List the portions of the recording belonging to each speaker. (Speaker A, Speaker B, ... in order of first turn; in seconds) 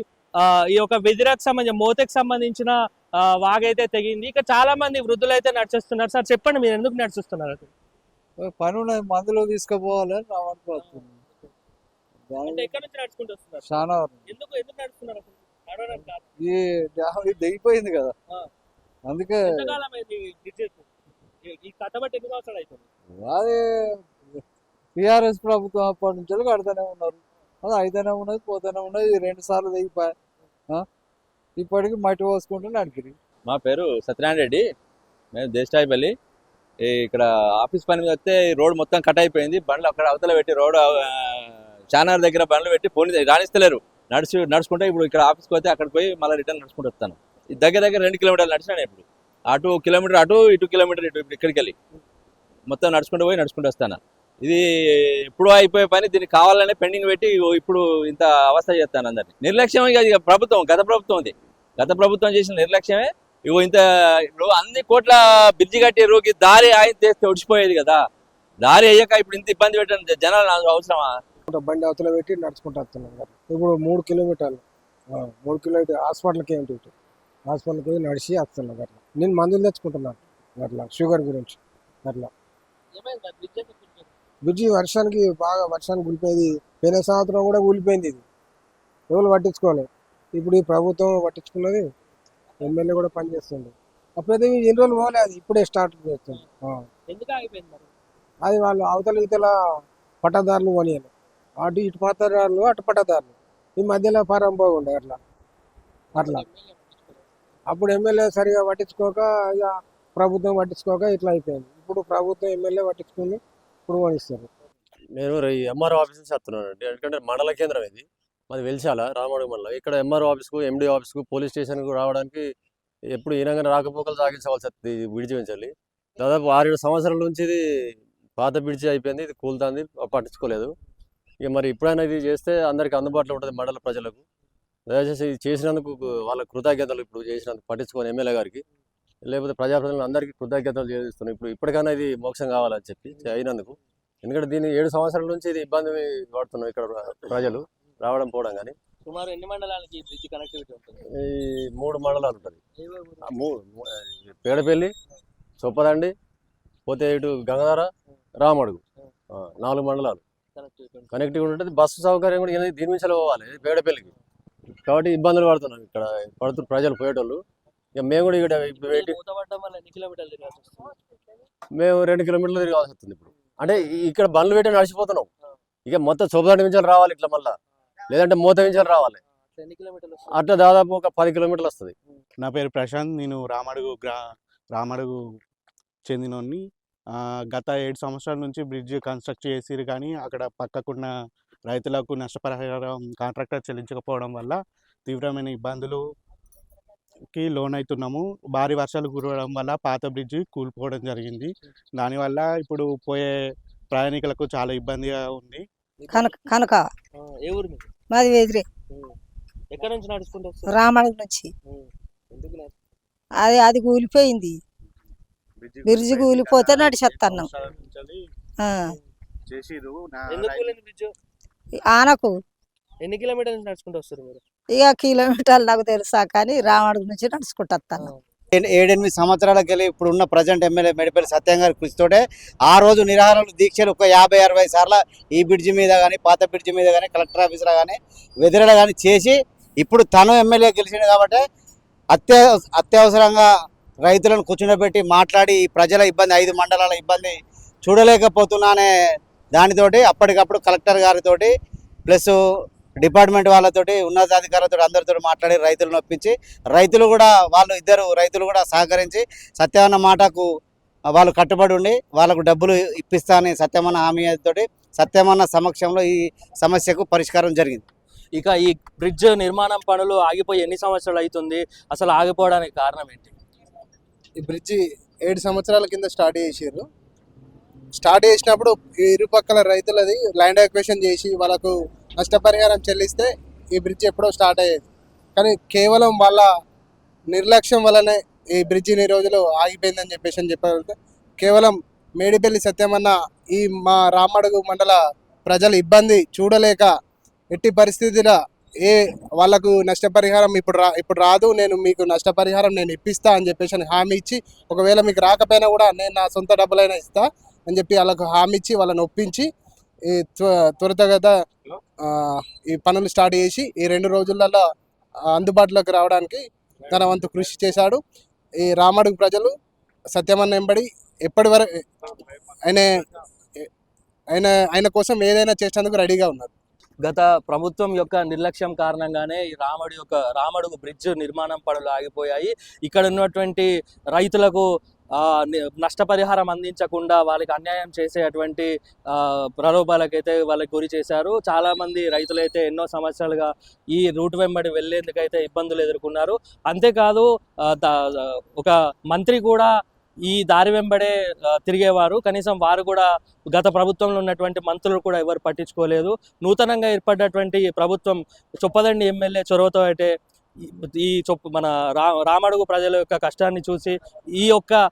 Speaker A: 0.4-7.7, 10.8-11.0, 12.4-13.7, 14.3-16.2, 19.4-20.9, 21.4-22.8, 82.9-84.1, 97.1-97.9, 106.2-107.2, 149.0-151.0, 152.8-153.3, 160.6-161.1, 168.8-170.9, 179.5-180.3, 207.2-207.9, 209.7-210.8, 211.7-212.7, 220.3-221.1, 223.0-224.4, 268.3-273.4, 327.0-349.7, 350.2-360.1, 360.6-364.8
Speaker B: 8.4-11.2, 12.2-12.8, 13.6-14.3, 15.9-18.1, 19.0-19.8, 23.1-24.4, 24.9-30.1, 31.6-33.2
Speaker C: 33.5-34.6, 35.3-36.1, 36.8-41.4, 41.9-51.7, 52.7-54.6, 55.3-63.8, 64.3-68.0, 68.6-71.1
Speaker D: 71.5-76.9, 77.5-82.3, 84.5-88.2, 89.1-91.9, 92.6-96.8, 98.4-99.5, 100.2-105.2, 106.2-106.5, 107.7-114.5
Speaker E: 115.2-122.5, 123.1-130.7, 131.4-134.2, 134.9-138.6, 139.2-148.7, 151.1-152.6, 153.2-154.9, 155.6-156.1, 156.8-160.2, 161.1-164.1, 164.8-167.4, 167.9-169.2, 171.7-175.3, 175.8-177.6, 178.1-179.2, 180.3-181.9
Speaker F: 182.4-184.2, 184.7-185.2, 186.1-186.6, 187.2-191.1, 191.7-196.0, 197.3-203.3, 203.9-205.6, 215.6-218.2, 219.5-220.7
Speaker G: 206.1-206.9, 208.1-208.6, 210.7-211.5, 213.4-214.6, 215.8-217.5, 218.6-218.9, 221.9-222.4, 224.7-228.1
Speaker H: 228.5-241.4, 242.1-243.5, 244.0-248.9, 249.5-251.5, 252.1-252.3, 253.0-260.5, 261.1-267.8
Speaker I: 274.4-276.8, 278.0-284.8, 285.4-286.5, 287.3-296.9, 297.5-309.5, 310.1-311.4, 312.1-314.6, 315.3-318.0, 318.6-319.5, 320.1-321.8, 324.3-326.5